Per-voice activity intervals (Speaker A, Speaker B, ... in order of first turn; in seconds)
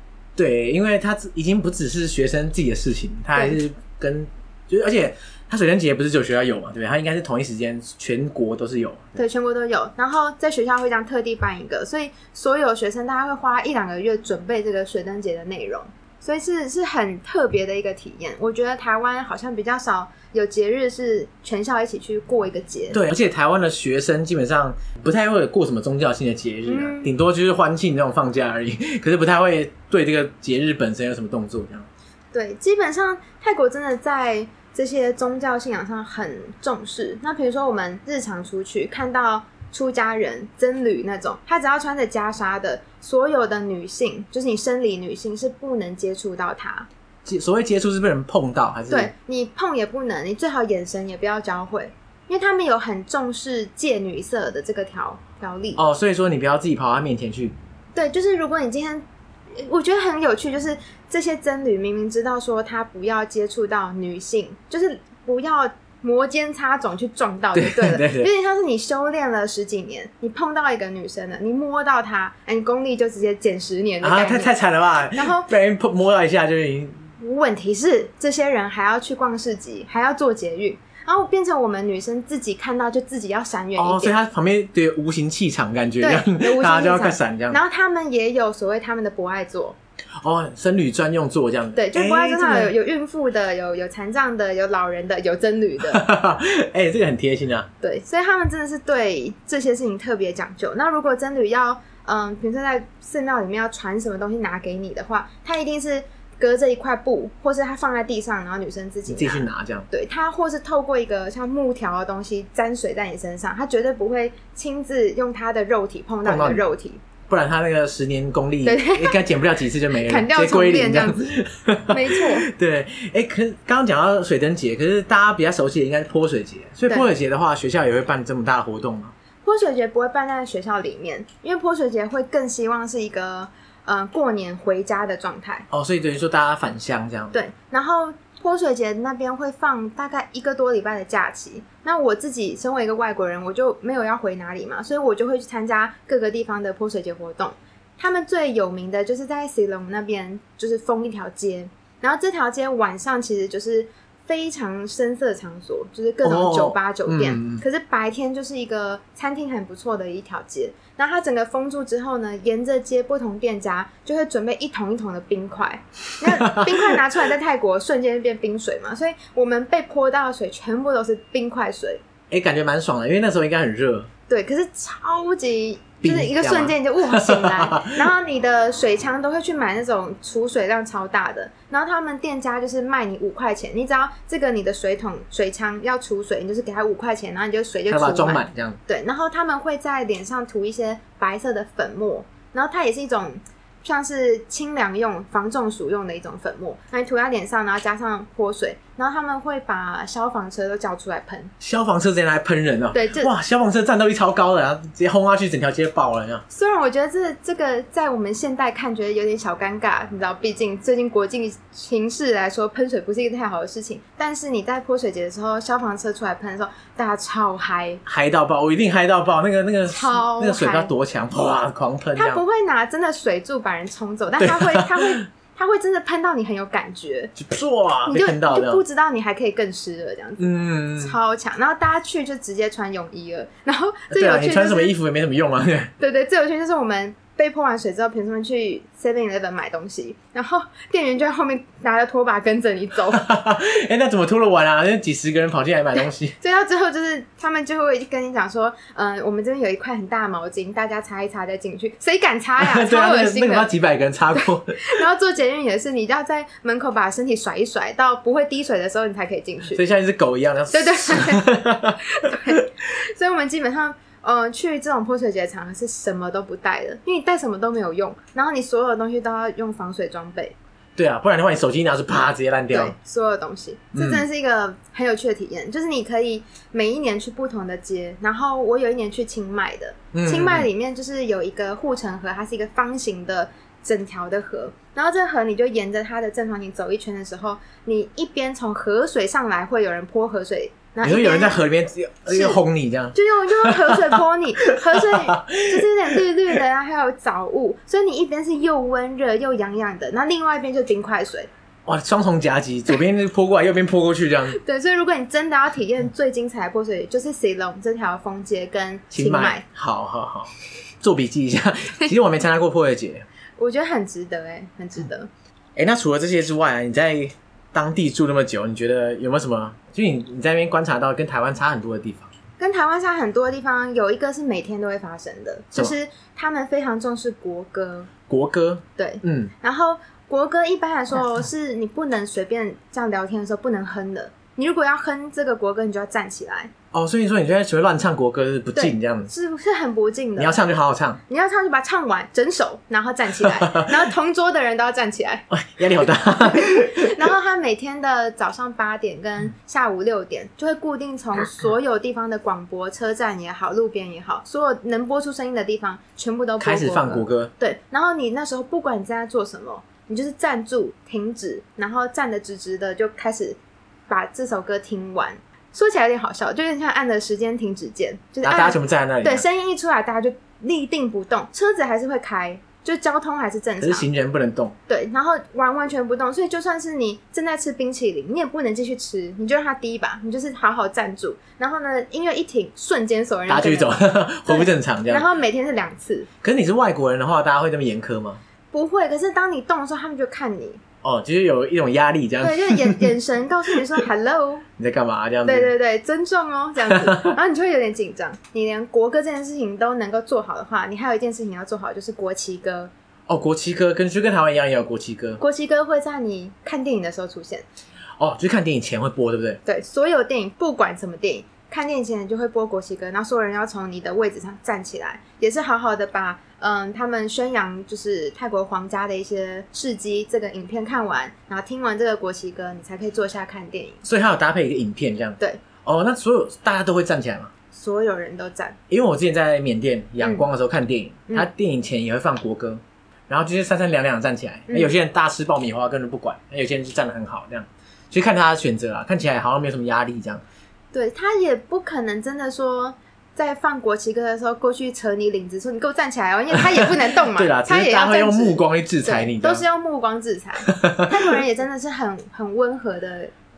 Speaker A: 0.4-9.2, 22.9-31.9, 47.2-49.1, 55.8-57.5, 67.5-68.3, 74.0-77.1, 83.8-87.6, 90.2-92.7, 95.8-97.7, 109.1-109.9, 116.2-116.6, 117.3-129.1, 135.7-137.4, 156.2-157.6, 166.3-167.0, 172.3-174.1, 176.0-178.0, 187.9-188.8, 201.6-206.4, 218.1-222.4, 224.4-225.3, 227.4-228.8, 230.4-231.2, 234.1-235.9, 243.1-246.4, 252.6-255.0, 259.7-262.7, 271.0-272.9, 273.9-274.2, 280.1-280.7, 291.0-296.2, 301.9-304.6, 309.1-313.2, 315.8-322.3, 328.3-329.5, 336.9-339.3, 340.4-341.2, 343.4-343.9, 345.5-347.2, 356.6-357.5, 368.4-369.4, 373.8-374.8, 383.5-385.3, 386.4-388.4, 391.0-393.1, 393.7-393.9, 394.8-395.7, 396.9-397.4, 403.3-405.4, 408.2-409.6, 424.1-427.5, 428.9-440.4, 446.6-449.6, 450.7-451.1
Speaker B: 9.2-23.0, 26.7-27.1, 32.3-46.9, 48.9-55.8, 58.0-74.5, 75.2-75.5, 77.2-84.2, 86.0-89.8, 91.8-96.0, 97.8-117.0, 118.7-119.2, 119.9-121.3, 121.9-122.5, 129.4-135.7, 137.3-172.0, 174.3-201.5, 202.9-203.3, 206.5-218.0, 219.9-220.9, 222.2-227.3, 228.1-234.9, 236.0-243.3, 246.4-253.7, 254.3-259.8, 260.7-270.6, 272.7-291.6, 292.3-292.6, 293.1-301.5, 304.6-309.6, 313.6-315.3, 322.6-328.1, 329.0-336.7, 338.8-340.6, 341.3-374.1, 374.9-386.3, 388.7-390.8, 392.4-394.7, 395.4-402.9, 405.4-407.6, 409.6-424.0, 427.7-428.8, 430.2-430.4, 434.7-434.9, 440.9-453.3